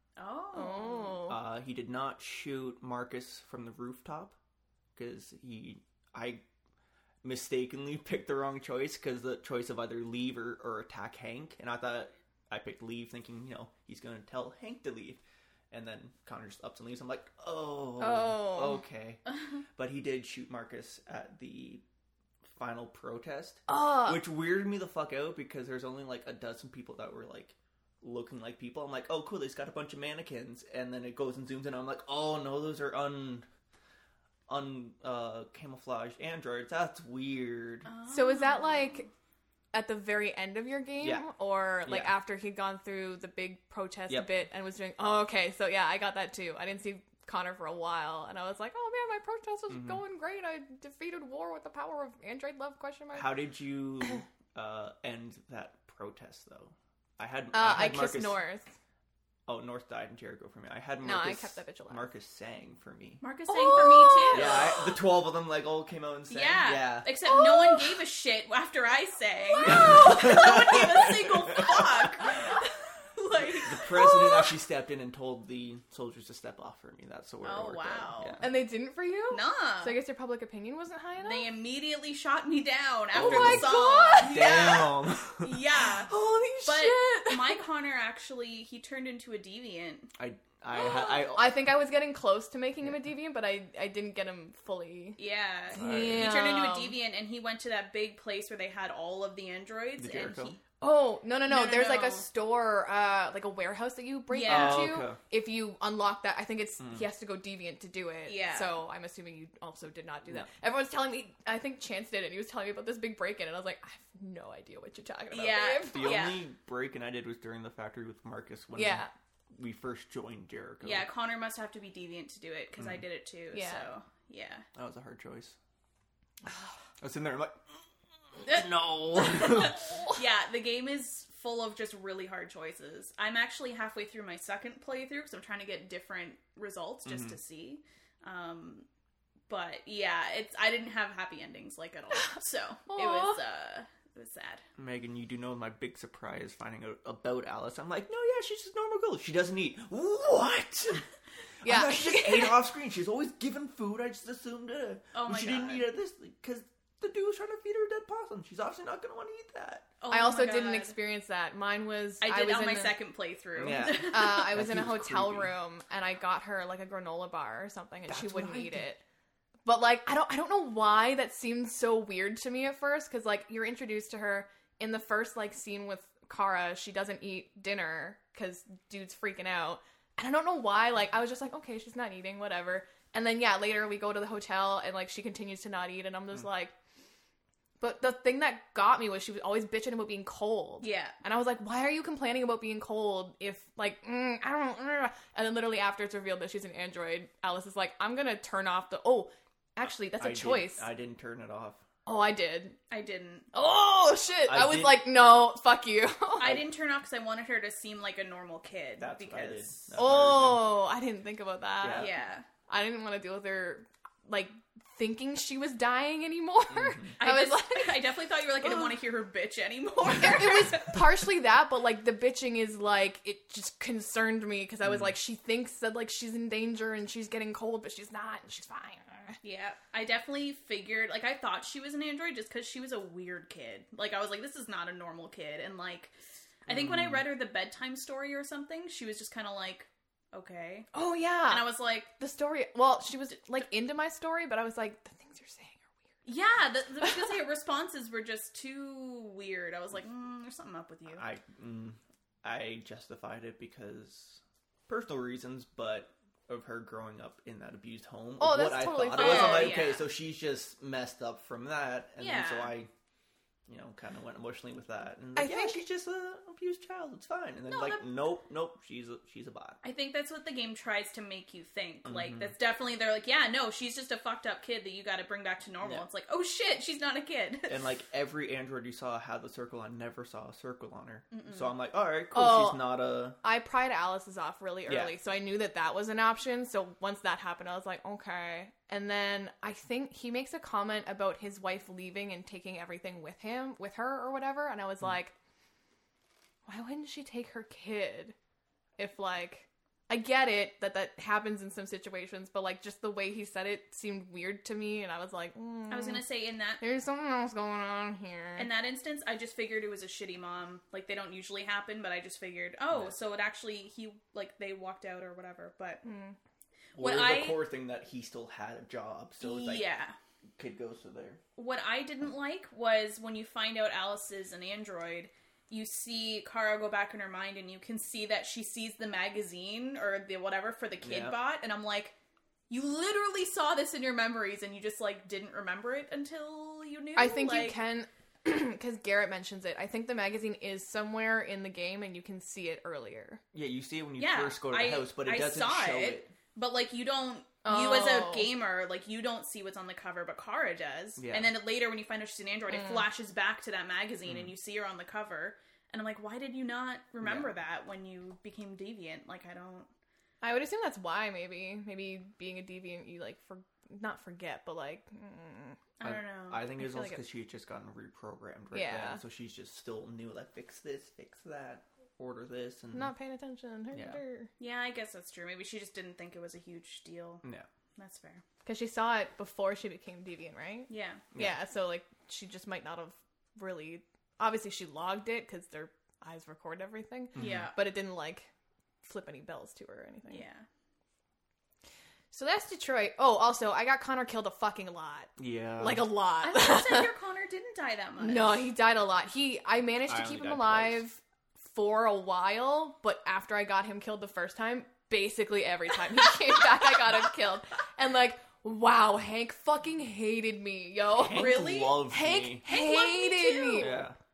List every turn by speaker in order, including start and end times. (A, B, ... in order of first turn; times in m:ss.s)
0:00.2-0:01.3 A
0:00.5-0:01.4 B
0:01.3-0:04.4 C
0:05.0-0:06.4 C
0:07.2-0:19.2 C
0:18.0-0:18.8 B
0:19.8-0:21.8 C
0:22.4-0:33.5 C
0:23.7-0:24.2 B
0:34.5-0:37.9 C
0:37.9-0:39.0 A
0:38.1-0:39.1 B
0:39.7-0:53.3 B
0:41.9-0:42.1 C
0:44.1-0:44.4 C
0:49.7-0:50.0 C
0:53.1-0:58.4 C
0:57.5-0:58.7 B
0:59.5-1:03.2 C
1:01.0-1:02.1 B
1:03.2-1:04.8 A
1:03.5-1:04.7 B
1:04.3-1:07.1 C
1:06.3-1:14.6 A
1:07.2-1:08.0 B
1:09.6-1:12.5 C
1:13.6-1:18.4 C
1:17.4-1:18.4 A
1:18.4-1:21.5 B
1:19.3-1:20.0 A
1:21.2-1:26.1 A
1:23.1-1:24.4 B
1:23.1-1:25.6 C
1:26.1-1:27.6 B
1:26.6-1:30.1 A
1:30.2-1:31.6 C
1:30.7-1:31.2 A
1:31.3-1:35.2 B
1:35.2-1:40.6 A
1:35.7-1:37.0 B
1:35.8-1:36.4 C
1:40.0-1:40.6 C
1:40.8-1:56.2 B
1:41.5-1:42.2 A
1:44.3-1:45.0 A
1:44.4-1:45.2 C
1:48.2-1:48.8 A
1:55.3-1:56.4 A
1:55.9-2:01.1 C
1:58.8-1:59.1 B
2:00.8-2:04.6 A
2:02.8-2:03.0 C
2:03.5-2:03.9 B
2:04.8-2:05.6 C
2:07.0-2:07.6 C
2:08.4-2:10.0 C
2:08.4-2:18.9 A
2:17.1-2:17.4 C
2:19.5-2:24.6 A
2:22.9-2:23.4 B
2:24.8-2:31.1 C
2:31.6-2:32.5 B
2:31.6-2:39.9 C
2:35.1-2:35.9 A
2:40.0-2:41.0 A
2:40.1-2:43.0 B
2:42.2-2:44.6 A
2:43.6-2:45.5 C
2:44.1-2:49.0 B
2:48.1-2:48.8 C
2:49.6-3:06.7 B
3:07.8-3:20.9 B
3:10.8-3:11.1 A
3:20.1-3:21.8 C
3:22.1-3:22.8 B
3:22.9-3:23.5 A
3:23.5-3:26.6 B
3:24.5-3:25.1 C
3:26.4-3:29.8 A
3:29.0-3:30.8 C
3:30.0-3:32.1 B
3:31.8-3:32.1 C
3:31.9-3:32.5 A
3:32.7-3:38.1 B
3:36.7-3:37.2 C
3:37.2-3:41.1 A
3:38.6-3:38.9 B
3:40.1-3:49.4 B
3:44.8-3:45.1 C
3:49.4-3:56.1 A
3:56.6-4:00.9 A
3:56.7-3:57.2 C
4:00.9-4:05.9 B
4:01.5-4:02.1 A
4:06.2-4:11.2 A
4:11.1-4:22.9 C
4:18.4-4:19.9 B
4:19.2-4:20.0 A
4:22.2-4:22.8 A
4:23.7-4:29.8 C
4:25.4-4:25.8 B
4:27.7-4:28.0 A
4:29.8-4:37.8 A
4:32.1-4:32.5 C
4:37.7-4:43.4 C
4:41.3-4:41.6 A
4:42.3-4:55.3 B
4:44.9-4:45.1 C
4:56.6-4:58.4 B
4:59.0-5:06.2 B
5:05.9-5:06.8 A
5:06.8-5:08.7 B
5:08.6-5:16.0 A
5:16.0-5:16.4 B
5:17.0-5:17.6 A
5:17.0-5:19.8 C
5:19.4-5:20.1 A
5:20.6-5:21.4 C
5:21.6-5:32.1 A
5:31.0-5:31.4 C
5:32.7-5:37.8 A
5:37.2-5:43.4 B
5:43.5-5:46.3 C
5:44.2-5:59.9 A
5:47.6-5:48.5 B
5:51.2-5:51.6 C
5:54.3-5:54.5 C
5:57.2-5:57.5 C
6:00.4-6:05.8 B
6:06.0-6:06.7 A
6:06.0-6:13.1 C
6:06.7-6:07.2 B
6:08.7-6:09.2 B
6:12.9-6:14.5 B
6:13.9-6:14.2 C
6:14.6-6:17.4 A
6:18.0-6:18.4 A
6:18.6-6:28.5 B
6:20.9-6:21.2 A
6:27.4-6:27.7 C
6:27.4-6:27.7 A
6:29.0-6:30.4 B
6:30.3-6:30.6 A
6:32.3-6:37.1 B
6:35.4-6:36.1 C
6:36.4-6:38.7 A
6:38.2-6:54.1 B
6:40.1-6:41.0 C
6:51.1-6:52.6 C
6:51.3-6:52.0 A
6:52.7-6:54.0 A
6:53.8-6:54.2 C